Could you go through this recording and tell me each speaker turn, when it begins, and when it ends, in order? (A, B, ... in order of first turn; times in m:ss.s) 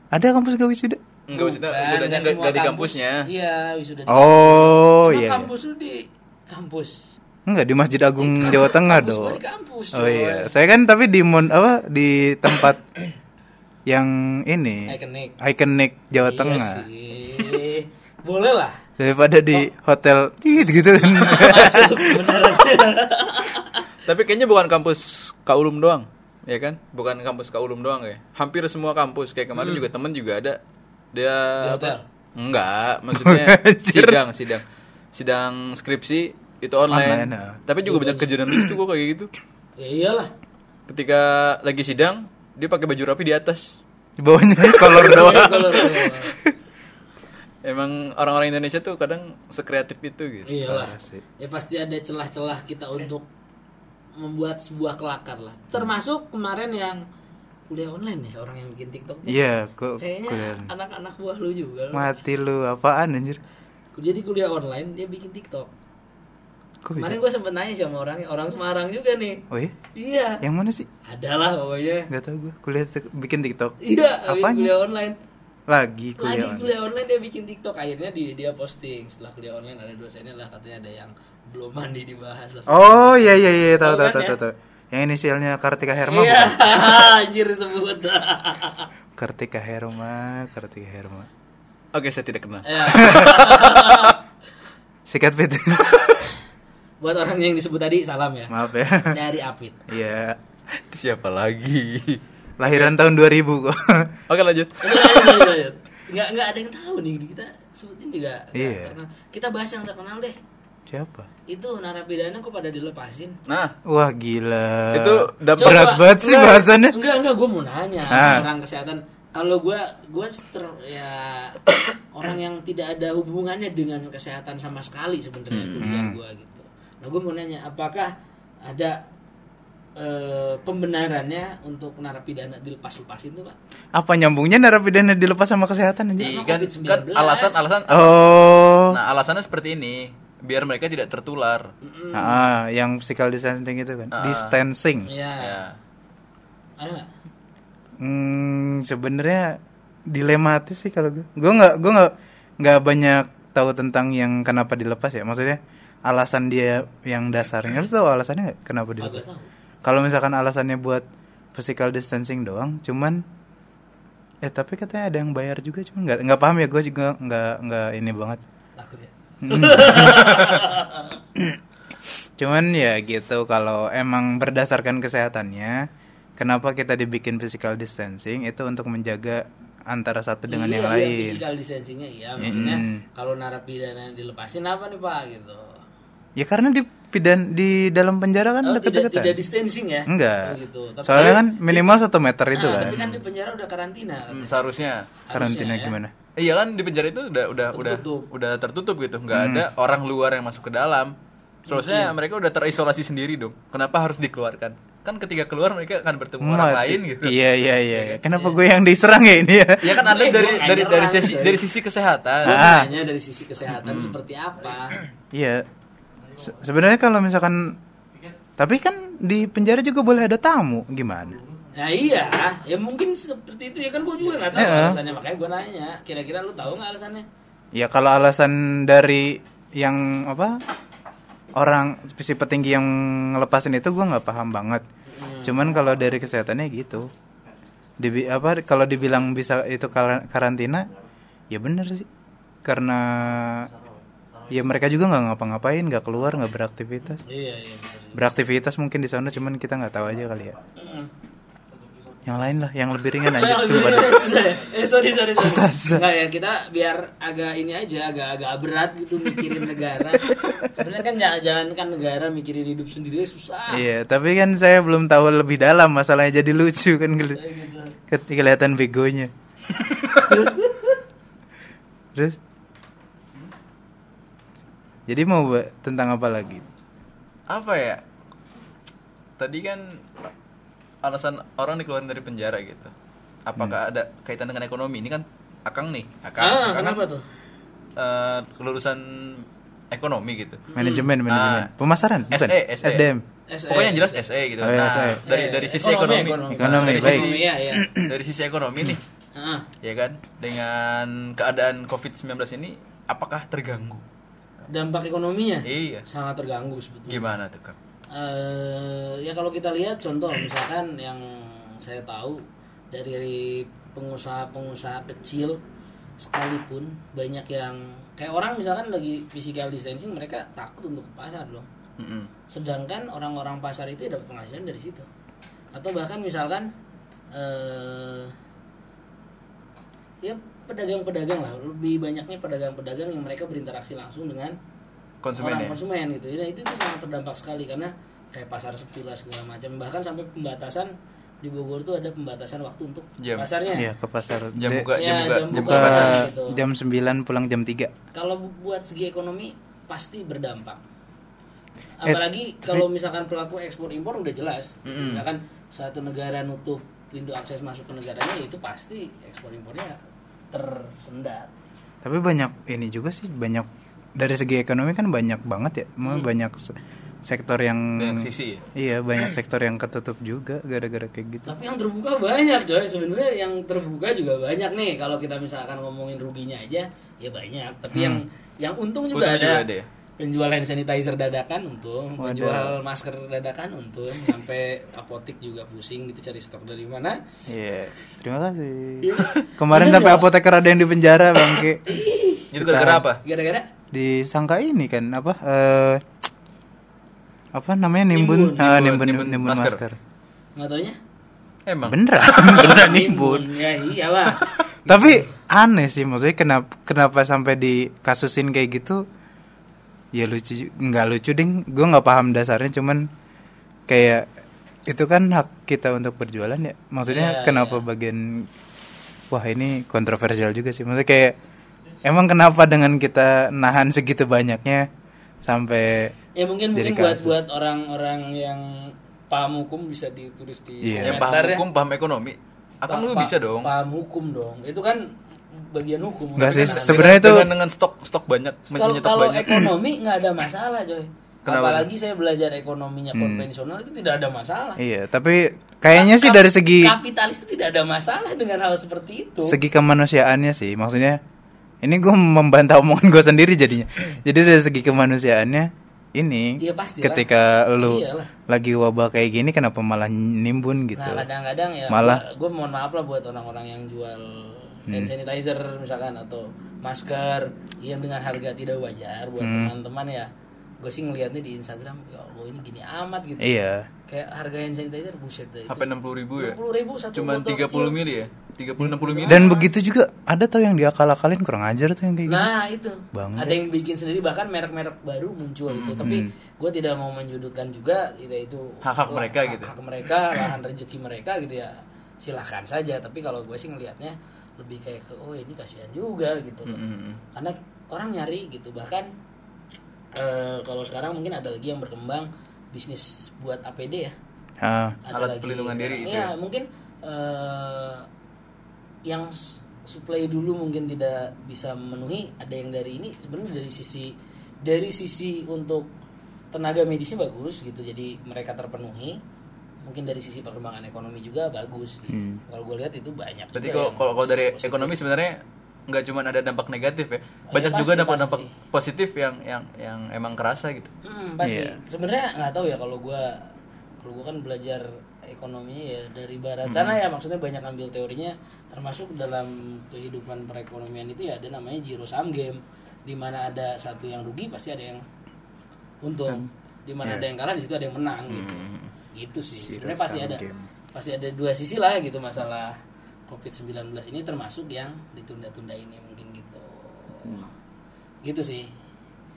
0:00.1-0:01.0 A
0:01.3-0:03.3 B
0:01.3-0:07.1 C
0:04.1-0:05.5 A
0:07.4-0:09.4 A
0:08.2-0:10.5 C
0:09.9-0:12.8 A
0:13.9-0:16.8 A
0:14.9-0:15.3 C
0:16.2-0:18.8 C
0:19.0-0:22.4 A
0:21.0-0:23.9 C
0:24.0-0:30.6 B
0:29.6-0:29.8 C
0:31.1-0:39.3 B
0:31.6-0:32.0 C
0:33.1-0:34.2 A
0:36.9-0:37.6 A
0:37.8-0:38.3 C
0:38.5-0:38.7 A
0:39.8-0:40.3 C
0:40.9-0:43.8 B
0:44.2-0:46.5 A
0:44.8-0:46.3 C
0:47.6-0:50.5 B
0:50.5-0:53.2 C
0:50.6-0:51.2 A
0:54.2-0:57.0 C
0:57.7-0:59.4 C
0:59.2-1:00.7 A
1:00.0-1:02.2 C
1:01.9-1:03.4 A
1:03.9-1:05.7 C
1:06.8-1:07.2 A
1:07.0-1:09.4 C
1:09.5-1:09.7 A
1:09.9-1:10.4 C
1:10.4-1:10.9 A
1:11.0-1:12.1 C
1:12.1-1:14.7 A
1:13.8-1:15.2 C
1:15.7-1:16.7 A
1:16.2-1:24.4 C
1:22.7-1:27.0 A
1:26.0-1:28.9 C
1:29.2-1:31.3 A
1:31.9-1:34.1 B
1:32.6-1:34.2 C
1:33.0-1:33.3 A
1:35.0-1:36.0 A
1:37.0-1:39.8 C
1:38.5-1:39.2 A
1:39.9-1:40.4 A
1:40.9-1:42.9 B
1:42.6-1:44.1 A
1:44.3-1:45.5 B
1:44.8-1:50.4 C
1:48.5-1:48.9 A
1:50.9-1:51.3 A
1:51.5-1:53.4 C
1:53.5-1:53.7 B
1:53.8-1:56.9 A
1:54.9-1:55.9 B
1:55.6-2:08.1 C
1:58.1-1:58.5 A
2:05.5-2:05.9 B
2:05.8-2:06.2 A
2:08.6-2:09.0 C
2:10.0-2:13.6 C
2:14.0-2:16.4 A
2:16.2-2:17.6 C
2:16.2-2:18.3 B
2:17.9-2:19.0 A
2:18.9-2:21.7 B
2:21.8-2:22.4 C
2:22.1-2:25.1 A
2:24.1-2:24.6 B
2:25.0-2:25.6 C
2:25.4-2:25.8 B
2:26.8-2:27.1 C
2:28.0-2:39.2 A
2:39.0-2:39.5 C
2:39.8-2:43.2 A
2:44.4-2:48.4 A
2:48.8-2:51.2 C
2:49.4-2:50.7 A
2:52.4-3:01.4 A
3:00.5-3:05.8 C
3:02.4-3:03.0 A
3:06.4-3:09.4 A
3:08.6-3:12.0 C
3:10.1-3:13.0 A
3:12.5-3:14.6 C
3:12.7-3:13.2 B
3:14.3-3:15.1 B
3:15.3-3:16.0 C
3:15.3-3:16.1 A
3:16.4-3:21.1 B
3:17.7-3:18.3 C
3:19.3-3:19.6 A
3:21.7-3:22.1 C
3:21.7-3:27.4 B
3:26.4-3:30.0 A
3:27.9-3:28.6 C
3:29.8-3:32.7 B
3:29.8-3:31.6 C
3:32.4-3:32.9 A
3:32.4-3:35.0 C
3:33.8-3:34.1 B
3:35.3-3:35.6 A
3:36.4-3:37.8 A
3:38.6-3:41.4 A
3:41.7-3:47.2 C
3:44.5-3:45.0 A
3:47.7-3:50.6 A
3:51.6-3:54.8 A
3:55.1-3:55.8 C
3:55.4-3:57.1 A
3:58.0-4:00.9 A
4:01.5-4:02.1 A
4:02.6-4:03.7 A
4:04.5-4:07.2 A
4:07.2-4:08.3 C
4:08.1-4:10.6 A
4:10.8-4:11.1 C
4:12.2-4:14.4 A
4:13.3-4:23.8 C
4:15.4-4:16.0 A
4:23.7-4:27.4 A
4:27.4-4:27.9 C
4:28.1-4:29.3 A
4:30.2-4:31.0 C
4:35.1-4:36.7 A
4:37.5-4:38.0 B
4:39.4-4:40.2 B
4:41.0-4:42.9 B
4:43.4-4:47.0 B
4:46.4-4:47.2 C
4:48.0-4:50.7 B
4:50.7-4:51.1 C
4:50.8-4:53.2 A
4:51.3-4:51.7 B
4:52.3-4:53.1 B
4:53.5-4:54.2 C
4:53.7-4:59.0 B
4:54.6-4:55.2 A
4:55.2-4:57.9 C
4:56.6-4:58.1 A
4:59.3-4:59.7 C
4:59.8-5:04.0 B
5:04.7-5:07.3 C
5:05.6-5:06.0 B
5:07.1-5:07.8 B
5:08.1-5:15.6 C
5:16.2-5:21.7 C
5:22.0-5:22.3 B
5:22.5-5:25.1 C
5:25.7-5:26.7 C
5:27.3-5:28.3 C
5:30.2-5:34.6 C
5:35.2-5:35.8 B
5:35.4-5:43.9 C
5:43.2-5:43.5 B
5:43.7-5:44.9 A
5:44.5-5:46.3 B
5:44.9-5:46.6 C
5:45.5-5:47.9 A
5:48.1-5:50.8 C
5:52.0-6:00.0 C
5:52.0-5:52.8 A
5:54.8-5:55.2 B
6:00.5-6:01.5 C
6:02.0-6:06.7 A
6:07.2-6:11.5 A
6:08.0-6:08.6 B
6:11.4-6:19.7 C
6:17.9-6:18.2 A
6:19.1-6:19.9 B
6:20.2-6:27.2 C
6:22.2-6:22.7 A
6:27.5-6:31.8 A
6:29.0-6:30.3 C
6:31.4-6:32.5 C
6:32.5-6:33.2 B
6:32.6-6:33.0 A
6:33.2-6:33.7 C
6:33.9-6:36.0 A
6:37.5-6:40.0 A
6:38.1-6:38.7 C
6:38.6-6:39.8 B
6:40.6-6:41.0 C
6:41.6-6:42.8 B
6:41.8-6:43.5 A
6:42.2-6:45.3 C
6:44.8-6:49.0 A
6:50.1-6:53.1 A
6:53.9-6:54.3 A
6:54.9-6:58.5 A
6:57.1-6:57.8 C
6:59.3-7:01.4 A
7:02.0-7:04.9 A
7:05.4-7:06.1 A
7:06.4-7:11.6 C
7:06.7-7:07.4 A
7:10.8-7:11.2 A
7:11.0-7:13.7 B
7:12.9-7:17.4 C
7:16.4-7:17.5 A
7:16.6-7:19.6 B
7:18.7-7:24.8 C
7:21.4-7:21.9 B
7:23.1-7:23.5 A
7:24.8-7:26.9 A
7:25.9-7:29.6 C
7:29.4-7:31.2 A
7:31.8-7:41.2 A
7:36.6-7:38.3 C
7:40.9-7:50.3 C
7:41.9-7:42.2 A
7:49.4-7:49.7 A
7:50.8-7:53.5 C
7:53.4-7:53.9 A
7:54.1-7:58.0 C
7:55.7-7:56.6 B
7:57.1-7:59.4 B
7:58.8-7:59.7 C
7:59.3-8:02.5 A
8:02.2-8:16.8 C
8:03.1-8:03.6 A
8:05.7-8:06.1 B
8:06.0-8:06.3 A
8:08.8-8:09.7 B
8:16.6-8:17.2 B
8:17.3-8:19.1 C
8:20.2-8:24.2 C
8:24.6-8:25.0 A
8:25.0-8:28.0 C
8:25.1-8:26.3 B
8:29.1-8:35.9 C
8:36.5-8:39.2 C
8:39.8-8:45.0 C
8:42.1-8:42.4 A
8:43.5-8:50.9 B
8:47.5-8:48.5 C
8:51.0-8:53.4 C
8:51.4-8:51.8 A
8:54.0-9:05.0 C
8:56.7-8:56.9 A
9:06.0-9:12.8 C
9:08.3-9:08.9 B
9:09.6-9:10.7 A
9:13.3-9:17.5 C
9:18.2-9:18.7 C